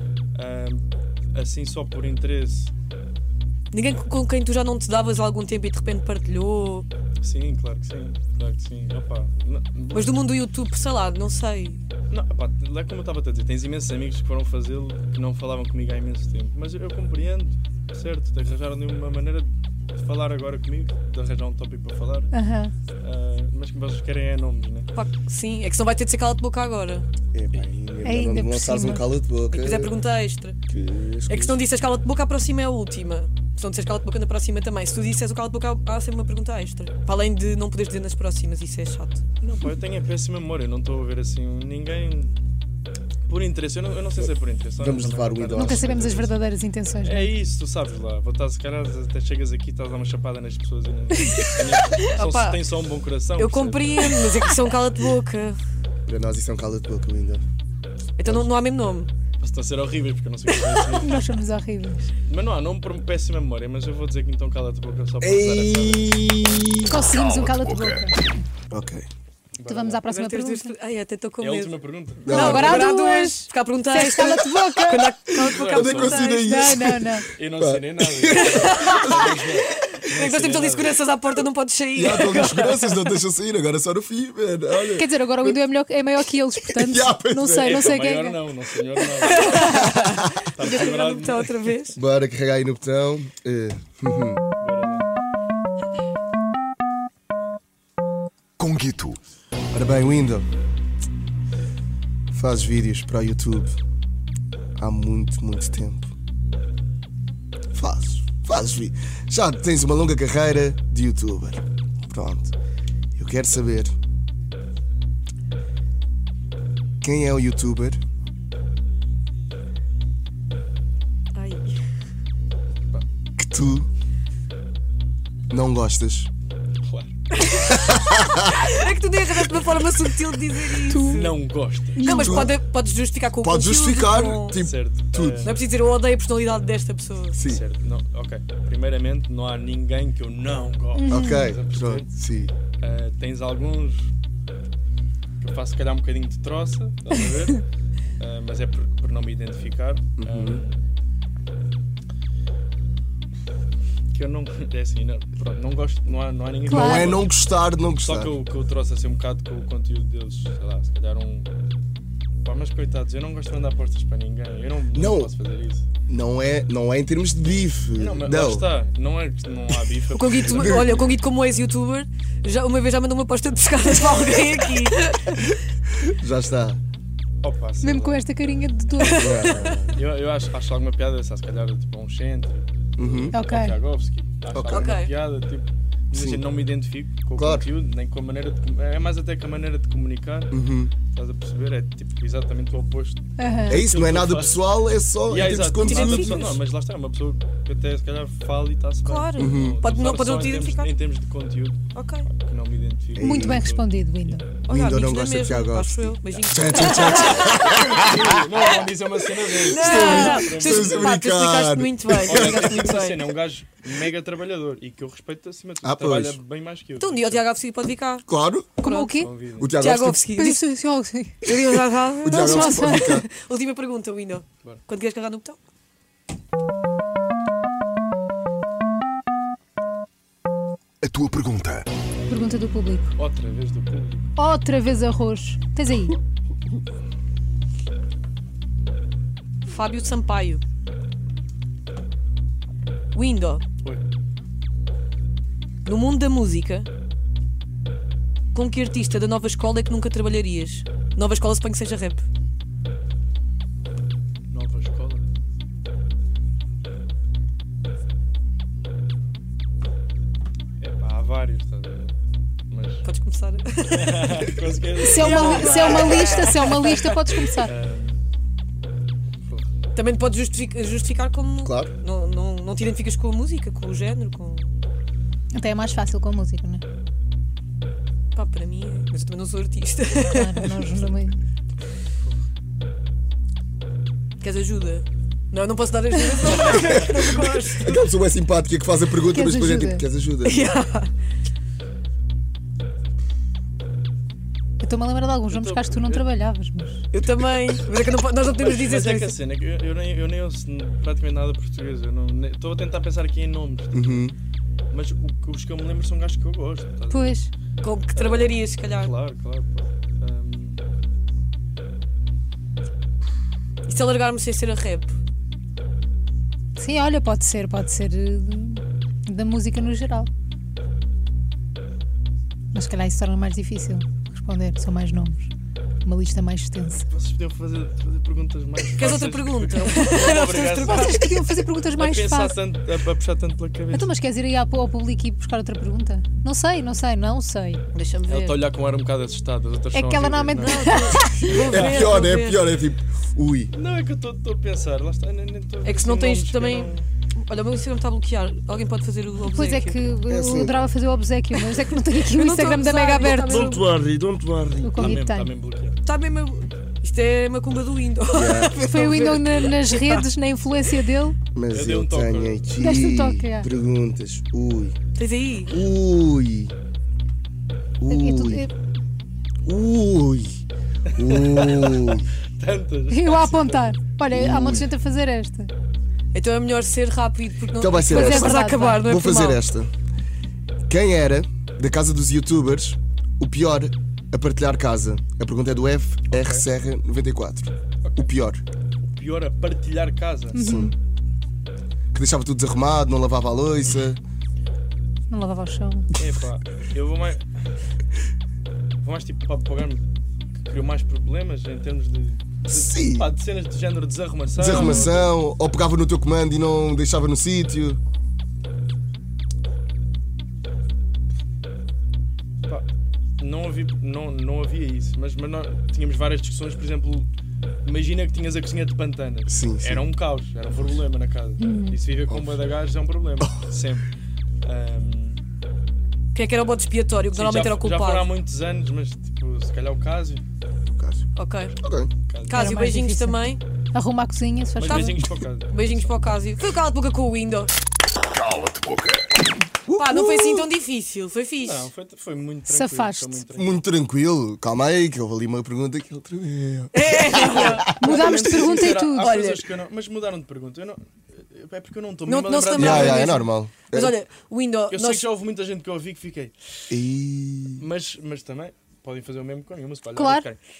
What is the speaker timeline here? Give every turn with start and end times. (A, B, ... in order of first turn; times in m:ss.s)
0:00.3-0:02.7 A
0:03.7-0:06.9 B
0:07.2-0:10.2 A
0:09.9-0:11.8 B
0:12.1-0:22.3 A
0:22.3-0:22.7 C
0:23.0-0:24.9 A
0:24.9-0:27.0 B
0:27.3-0:29.9 D
0:28.0-0:29.0 C
0:29.5-0:30.6 B
0:30.7-0:31.6 D
0:31.3-0:39.2 B
0:39.4-0:42.3 A
0:43.3-0:46.3 A
0:44.8-0:46.2 D
0:45.5-0:47.3 C
0:47.0-0:54.2 A
0:52.0-0:52.6 B
0:53.4-0:55.6 B
0:56.0-0:57.4 D
0:58.2-0:59.1 B
0:59.4-1:01.2 A
1:01.0-1:02.1 C
1:02.2-1:06.9 A
1:05.2-1:07.0 D
1:06.9-1:08.3 C
1:07.0-1:08.1 E
1:08.7-1:09.0 D
1:09.6-1:10.1 A
1:09.6-1:10.7 C
1:10.1-1:11.8 B
1:11.4-1:12.5 A
1:12.2-1:12.8 D
1:12.3-1:16.6 B
1:12.3-1:15.1 C
1:15.4-1:19.3 D
1:15.5-1:16.3 A
1:16.1-1:17.3 C
1:17.3-1:21.0 A
1:18.3-1:19.3 B
1:19.9-1:22.9 B
1:22.0-1:25.5 D
1:24.9-1:28.4 C
1:26.7-1:27.8 D
1:27.6-1:29.9 A
1:29.2-1:32.0 B
1:30.5-1:31.7 A
1:32.0-1:34.4 D
1:34.6-1:35.1 A
1:38.6-1:39.2 E
1:39.7-1:40.4 D
1:42.3-1:43.8 D
1:44.8-1:46.1 D
1:47.7-1:52.5 D
1:53.2-1:53.9 D
1:57.0-1:58.0 D
2:01.3-2:01.8 B
2:03.4-2:03.9 D
2:05.5-2:06.3 D
2:06.8-2:07.1 A
2:07.4-2:11.4 B
2:07.7-2:08.4 D
2:10.9-2:11.3 C
2:11.1-2:12.2 A
2:12.0-2:12.5 C
2:12.0-2:14.6 B
2:12.0-2:12.6 D
2:13.4-2:15.5 D
2:14.5-2:15.6 A
2:15.4-2:17.4 B
2:17.3-2:17.6 D
2:17.4-2:22.1 A
2:20.9-2:21.4 C
2:21.1-2:22.5 D
2:22.8-2:24.1 A
2:25.4-2:27.6 A
2:28.2-2:30.9 A
2:30.2-2:30.6 D
2:34.1-2:37.3 A
2:36.6-2:38.3 D
2:36.7-2:37.2 C
2:38.0-2:41.5 A
2:42.4-2:45.8 A
2:44.9-2:45.3 D
2:46.1-2:48.7 D
2:48.0-2:51.1 A
2:50.1-2:55.4 B
2:50.5-2:50.9 D
2:55.9-2:56.8 D
2:57.4-2:58.2 A
2:57.8-2:59.8 C
2:59.0-2:59.5 B
2:59.2-3:00.0 D
2:59.9-3:10.5 A
3:03.0-3:03.4 D
3:03.3-3:03.8 C
3:04.5-3:05.0 D
3:04.7-3:05.1 B
3:06.1-3:06.4 D
3:07.4-3:07.7 D
3:10.5-3:10.9 D
3:11.1-3:14.6 A
3:13.4-3:13.8 C
3:13.7-3:16.6 D
3:15.3-3:24.4 A
3:15.8-3:16.3 C
3:19.0-3:20.9 B
3:19.4-3:19.8 D
3:21.9-3:22.3 B
3:23.2-3:23.7 D
3:23.2-3:24.4 C
3:24.6-3:28.0 B
3:24.7-3:28.3 D
3:26.7-3:31.2 A
3:29.6-3:33.3 B
3:29.7-3:32.8 D
3:29.9-3:30.4 C
3:32.2-3:37.4 A
3:35.8-3:36.4 D
3:37.0-3:38.2 B
3:38.3-3:38.7 D
3:38.8-3:39.2 B
3:38.8-3:39.3 C
3:39.1-3:39.7 A
3:39.6-3:40.2 D
3:39.8-3:40.6 B
3:40.3-3:41.5 C
3:41.4-3:45.6 B
3:42.2-3:43.3 D
3:42.3-3:43.2 C
3:51.0-3:51.9 E
3:52.3-3:53.1 C
3:53.2-3:54.3 A
3:54.4-3:56.2 C
3:59.6-4:00.6 B
4:03.1-4:03.6 B
4:05.8-4:06.9 B
4:08.5-4:12.2 B
4:14.5-4:15.2 A
4:20.8-4:22.1 A
4:22.7-4:23.0 A
4:23.0-4:24.5 B
4:23.9-4:26.5 A
4:25.0-4:27.7 C
4:25.1-4:27.5 B
4:27.6-4:28.2 A
4:29.9-4:34.7 B
4:31.6-4:31.9 D
4:35.5-4:36.8 C
4:38.3-4:40.8 B
4:40.1-4:41.4 C
4:44.4-4:48.0 B
4:46.5-4:47.1 A
4:46.9-4:50.7 D
4:49.3-4:50.0 C
4:50.4-4:51.1 B
4:54.8-4:57.0 C
4:55.5-4:56.2 A
4:57.1-4:59.4 B
4:58.5-5:04.3 A
5:03.9-5:04.3 D
5:04.9-5:07.4 A
5:07.1-5:07.5 C
5:07.8-5:09.1 B
5:08.1-5:10.8 A
5:13.8-5:15.1 B
5:16.8-5:20.3 C
5:22.7-5:25.5 C
5:26.0-5:27.0 C
5:27.1-5:31.4 A
5:28.9-5:31.4 B
5:30.8-5:32.6 C
5:32.0-5:34.1 A
5:33.9-5:37.8 C
5:37.9-5:38.6 B
5:38.3-5:41.0 A
5:39.9-5:41.6 C
5:40.5-5:42.7 B
5:41.5-5:43.7 D
5:41.7-5:42.1 A
5:43.7-5:47.1 A
5:45.8-5:50.0 B
5:49.5-5:53.8 C
5:50.3-5:50.8 D
5:51.6-5:53.8 B
5:53.2-5:55.2 D
5:54.8-5:55.5 C
5:55.0-5:56.0 A
5:56.0-6:00.2 B
5:58.3-5:58.8 D
5:58.8-6:01.4 C
6:01.5-6:04.9 D
6:01.7-6:02.7 A
6:02.8-6:03.7 C
6:05.2-6:05.8 B
6:05.7-6:06.7 D
6:08.0-6:08.7 D
6:08.1-6:08.7 C
6:09.6-6:10.6 D
6:11.1-6:14.0 A
6:11.2-6:12.3 D
6:13.1-6:15.7 C
6:14.3-6:14.9 D
6:16.3-6:19.6 B
6:17.8-6:19.9 D
6:18.0-6:19.0 C
6:20.9-6:28.6 D
6:26.3-6:26.6 A
6:28.0-6:28.3 A
6:29.0-6:30.7 A
6:30.5-6:30.9 C
6:30.6-6:30.9 D
6:32.1-6:34.2 D
6:35.3-6:36.1 C
6:36.2-6:37.4 A
6:39.0-6:40.0 A
6:40.6-6:45.2 A
6:42.6-6:43.3 D
6:44.6-6:48.0 D
6:44.6-6:45.1 C
6:53.4-6:57.3 A
6:57.8-7:04.1 A
6:59.5-7:00.0 D
7:01.6-7:02.0 C
7:02.3-7:02.6 D
7:03.4-7:03.7 D
7:04.6-7:05.4 A
7:06.3-7:08.3 B
7:07.3-7:10.4 A
7:10.9-7:11.2 D
7:11.4-7:11.7 B
7:11.8-7:12.1 D
7:12.3-7:12.8 A
7:12.5-7:13.6 B
7:12.5-7:15.2 C
7:14.8-7:16.2 A
7:14.8-7:15.2 B
7:15.7-7:17.7 B
7:18.3-7:19.3 E
7:19.8-7:20.7 D
7:20.0-7:21.9 B
7:21.6-7:23.8 A
7:22.7-7:23.4 C
7:23.5-7:28.0 D
7:26.9-7:29.6 B
7:27.9-7:33.3 A
7:28.0-7:29.4 C
7:32.2-7:35.2 B
7:32.7-7:34.2 D
7:34.9-7:36.5 A
7:36.9-7:37.8 D
7:37.8-7:40.6 A
7:40.1-7:40.5 C